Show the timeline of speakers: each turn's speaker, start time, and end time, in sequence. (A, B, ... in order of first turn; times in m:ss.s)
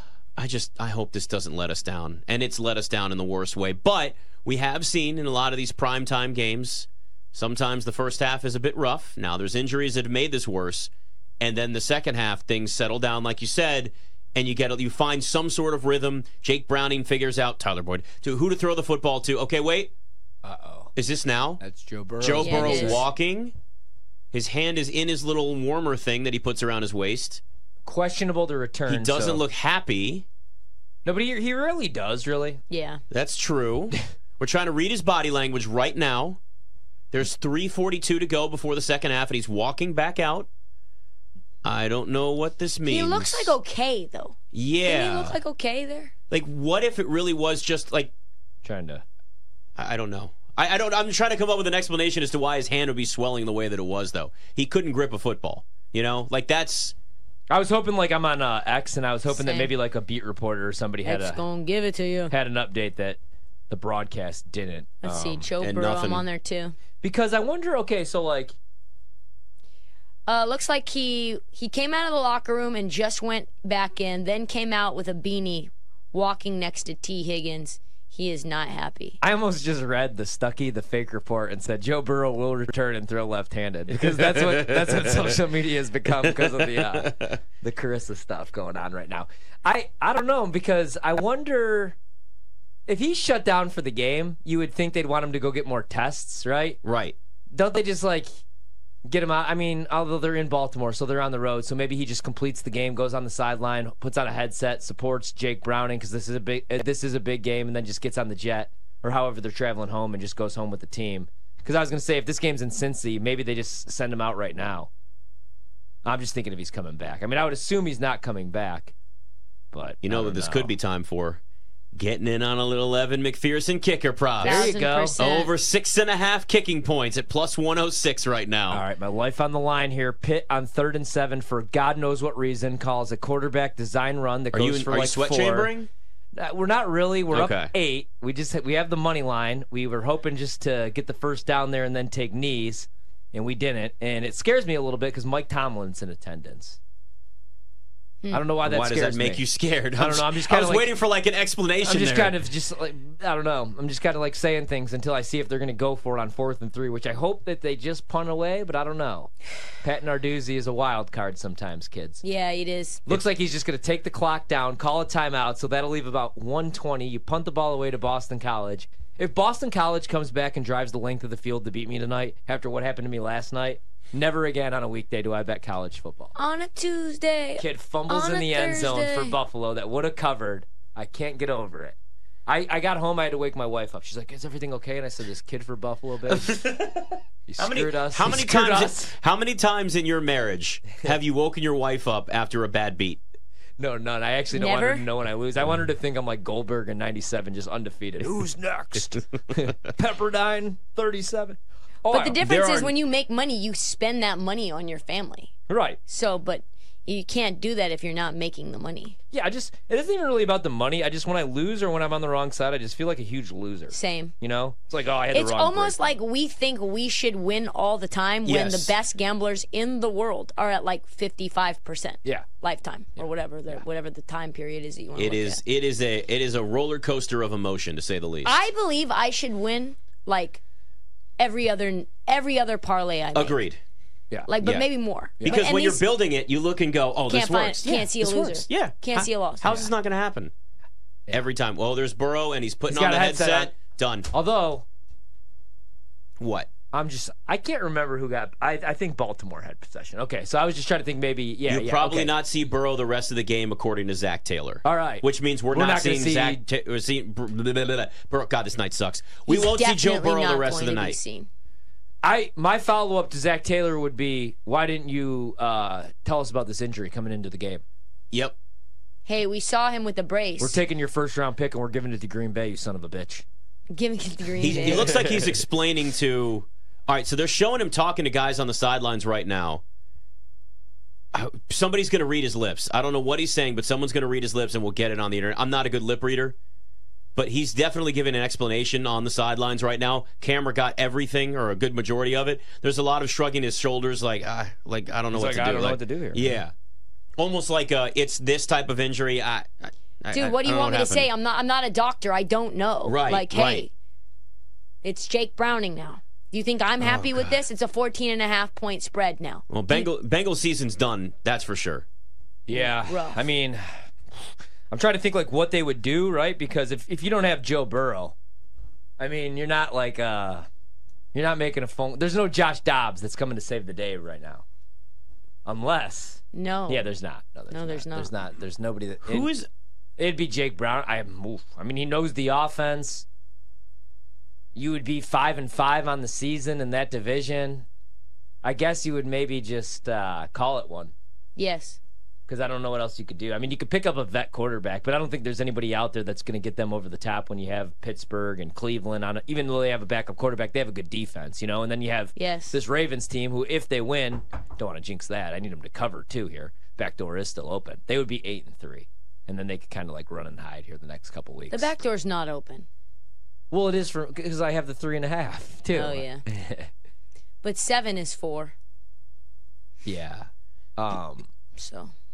0:00.4-0:19.9 A
0:20.4-0:20.9 B
0:21.0-0:21.6 A
0:21.6-0:23.0 B
0:22.2-0:23.5 A
0:22.4-0:23.0 C
0:24.3-0:27.4 A
0:27.9-0:29.4 B
0:28.9-0:30.3 A
0:31.0-0:32.6 B
0:32.7-0:33.0 C
0:33.1-0:36.4 A
0:37.1-0:40.5 A
0:41.6-0:43.6 A
0:42.9-0:46.1 C
0:44.5-0:45.4 A
0:46.3-0:48.1 A
0:48.6-0:49.0 B
0:49.8-0:57.0 A
0:57.5-1:01.4 B
0:59.3-0:59.7 C
1:01.0-1:02.3 C
1:02.3-1:03.2 B
1:03.7-1:05.5 B
1:05.0-1:06.8 C
1:05.6-1:06.3 A
1:07.0-1:08.6 B
1:10.3-1:19.2 C
1:19.2-1:32.0 B
1:24.2-1:24.9 A
1:26.2-1:27.4 A
1:32.9-1:36.8 B
1:36.8-1:37.2 A
1:37.5-1:38.3 B
1:39.1-1:54.9 B
1:56.0-1:58.9 B
1:59.7-2:00.7 B
2:00.0-2:01.4 A
2:01.9-2:04.6 A
2:04.4-2:05.2 B
2:04.4-2:05.5 C
2:05.2-2:08.8 A
2:08.7-2:15.7 B
2:14.5-2:15.9 A
2:16.4-2:26.8 B
2:17.3-2:17.7 A
2:28.3-2:29.4 B
2:28.6-2:32.4 A
2:30.0-2:30.9 B
2:31.8-2:39.3 B
2:39.8-2:42.2 B
2:42.2-2:43.1 C
2:43.1-2:56.3 B
2:56.4-2:59.4 C
2:57.6-3:02.0 B
3:02.5-3:06.8 B
3:06.4-3:13.2 A
3:07.5-3:09.2 B
3:13.8-3:22.9 B
3:14.5-3:15.1 C
3:22.0-3:25.6 C
3:25.7-3:26.0 B
3:26.1-3:29.2 C
3:29.3-3:36.1 B
3:33.9-3:34.3 C
3:35.3-3:45.6 C
3:38.5-3:38.9 A
3:45.2-3:48.6 A
3:48.4-3:50.6 C
3:51.4-3:53.6 C
3:53.3-3:53.8 A
3:54.5-3:56.0 C
3:54.6-3:54.9 A
3:55.4-3:58.0 A
3:57.3-3:59.8 C
3:57.8-3:58.6 B
3:58.7-4:00.5 A
4:01.3-4:04.3 A
4:02.9-4:03.7 B
4:04.3-4:04.8 B
4:06.4-4:06.7 A
4:06.9-4:12.3 B
4:11.7-4:21.2 A
4:14.8-4:16.6 B
4:19.5-4:21.5 C
4:22.2-4:27.8 B
4:29.3-4:30.8 C
4:30.6-4:33.4 B
4:33.9-4:35.1 C
4:34.6-4:39.8 A
4:34.6-4:35.6 B
4:41.3-4:46.6 A
4:47.4-4:56.7 A
4:55.3-4:56.6 B
4:57.4-5:01.3 A
5:00.3-5:03.9 C
5:03.0-5:03.9 A
5:05.0-5:10.1 C
5:07.0-5:07.6 A
5:09.7-5:12.1 A
5:12.7-5:18.3 B
5:12.7-5:13.4 C
5:19.2-5:20.7 B
5:21.3-5:24.6 B
5:25.7-5:29.5 B
5:26.5-5:27.1 C
5:27.7-5:28.3 C
5:29.2-5:29.7 A
5:30.2-5:33.3 B
5:34.8-5:37.9 B
5:38.6-5:41.1 B
5:41.6-5:42.0 C
5:42.5-6:01.9 B
5:52.4-5:52.8 C
6:01.7-6:02.9 C
6:03.7-6:06.9 B
6:05.9-6:06.4 C
6:07.6-6:08.7 C
6:10.0-6:11.5 B
6:11.8-6:12.1 C